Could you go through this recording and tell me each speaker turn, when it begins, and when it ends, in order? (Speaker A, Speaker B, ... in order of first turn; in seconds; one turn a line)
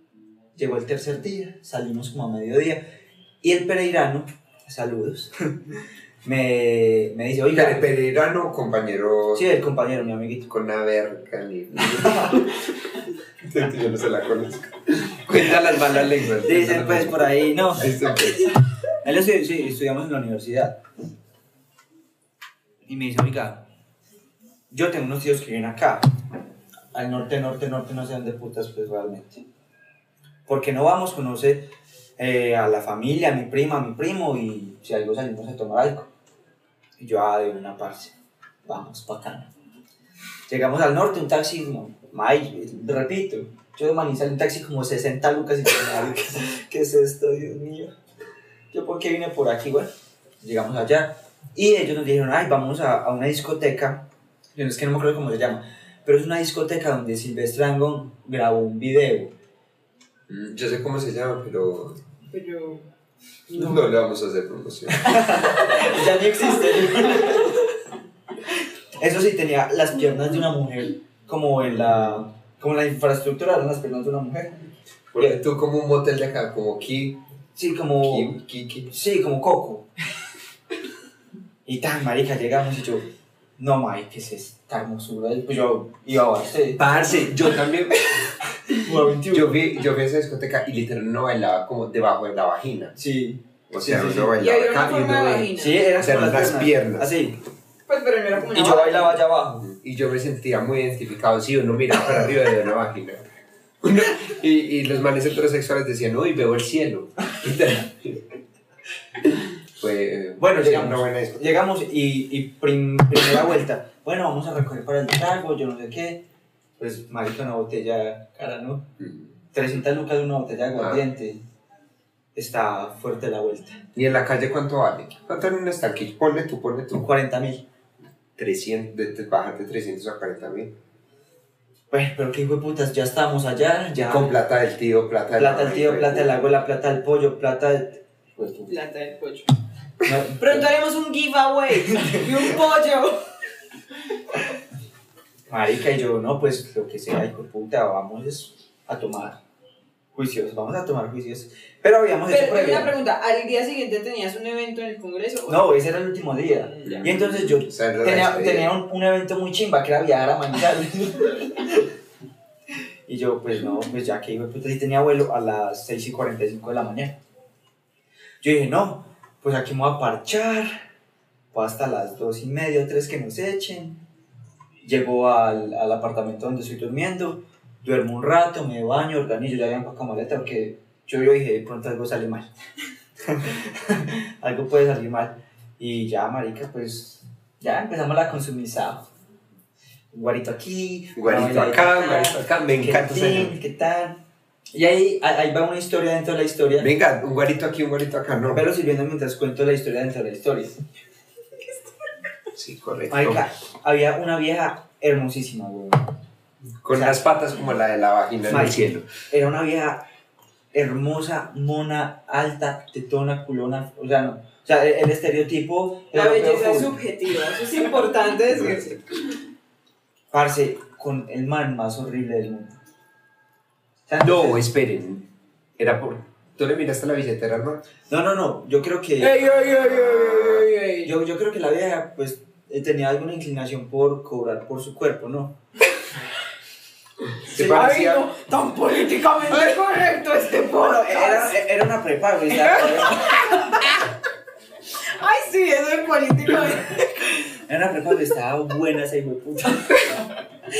Speaker A: 0.5-2.9
Speaker A: 3.4-5.7
Speaker A: 6.2-7.9
Speaker B: 7.5-9.5
Speaker A: 9.3-10.5
Speaker B: 10.5-12.7
Speaker A: 12.0-12.5
Speaker B: 13.4-18.5
Speaker A: 16.4-18.2
Speaker A: 19.0-20.8
Speaker A: 22.9-23.7
Speaker A: 24.7-26.1
Speaker A: 26.9-29.4
Speaker A: 30.5-36.1
Speaker A: 37.0-38.1
Speaker A: 38.6-39.5
Speaker A: 40.5-47.9
Speaker A: 48.7-59.3
Speaker B: 60.3-62.0
Speaker C: 62.3-62.8
Speaker C: 63.5-63.9
Speaker B: 63.5-65.3
Speaker A: 64.9-67.6
Speaker A: 69.0-74.5
Speaker B: 71.9-72.2
Speaker B: 75.1-77.2
Speaker A: 77.5-78.4
Speaker B: 78.0-78.9
Speaker A: 78.9-79.9
Speaker A: 81.7-83.1
Speaker A: 83.6-87.1
Speaker B: 86.8-88.1
Speaker A: 88.6-89.6
Speaker B: 89.3-92.9
Speaker A: 93.0-94.4
Speaker B: 93.7-97.1
Speaker C: 94.4-95.8
Speaker A: 95.6-97.4
Speaker C: 97.9-99.2
Speaker A: 98.5-99.7
Speaker B: 99.6-103.2
Speaker B: 103.8-108.2
Speaker B: 109.8-111.5
Speaker A: 110.4-116.2
Speaker A: 116.8-118.9
Speaker B: 119.0-119.3
Speaker A: 119.5-121.4
Speaker A: 122.3-123.8
Speaker B: 123.9-127.1
Speaker A: 127.0-127.6
Speaker B: 128.4-130.7
Speaker A: 131.9-134.4
Speaker B: 134.0-136.4
Speaker A: 135.3-138.8
Speaker C: 138.7-139.5
Speaker A: 140.0-140.7
Speaker C: 140.4-143.2
Speaker A: 141.9-142.3
Speaker A: 145.5-149.4
Speaker A: 150.1-152.9
Speaker C: 152.3-155.8
Speaker A: 155.5-161.9
Speaker C: 156.6-157.1
Speaker B: 156.8-158.8
Speaker A: 163.1-167.2
Speaker A: 168.4-170.9
Speaker A: 171.5-174.0
Speaker A: 174.8-182.5
Speaker A: 183.2-189.1
Speaker A: 190.1-194.2
Speaker B: 191.2-193.6
Speaker A: 194.7-196.9
Speaker B: 196.8-198.7
Speaker A: 198.5-200.8
Speaker B: 202.5-203.4
Speaker A: 203.1-206.1
Speaker B: 206.8-209.1
Speaker A: 206.9-207.2
Speaker A: 208.5-210.0
Speaker A: 210.7-217.0
Speaker C: 216.1-219.0
Speaker B: 218.5-219.0
Speaker A: 220.3-222.8
Speaker A: 224.1-224.6
Speaker B: 224.2-227.8
Speaker A: 228.1-229.4
Speaker C: 229.2-231.1
Speaker B: 230.2-230.6
Speaker A: 231.0-235.6
Speaker B: 237.5-238.3
Speaker A: 237.5-237.9
Speaker C: 237.6-241.6
Speaker A: 240.8-243.7
Speaker C: 242.5-244.0
Speaker C: 245.0-247.1
Speaker A: 247.7-249.9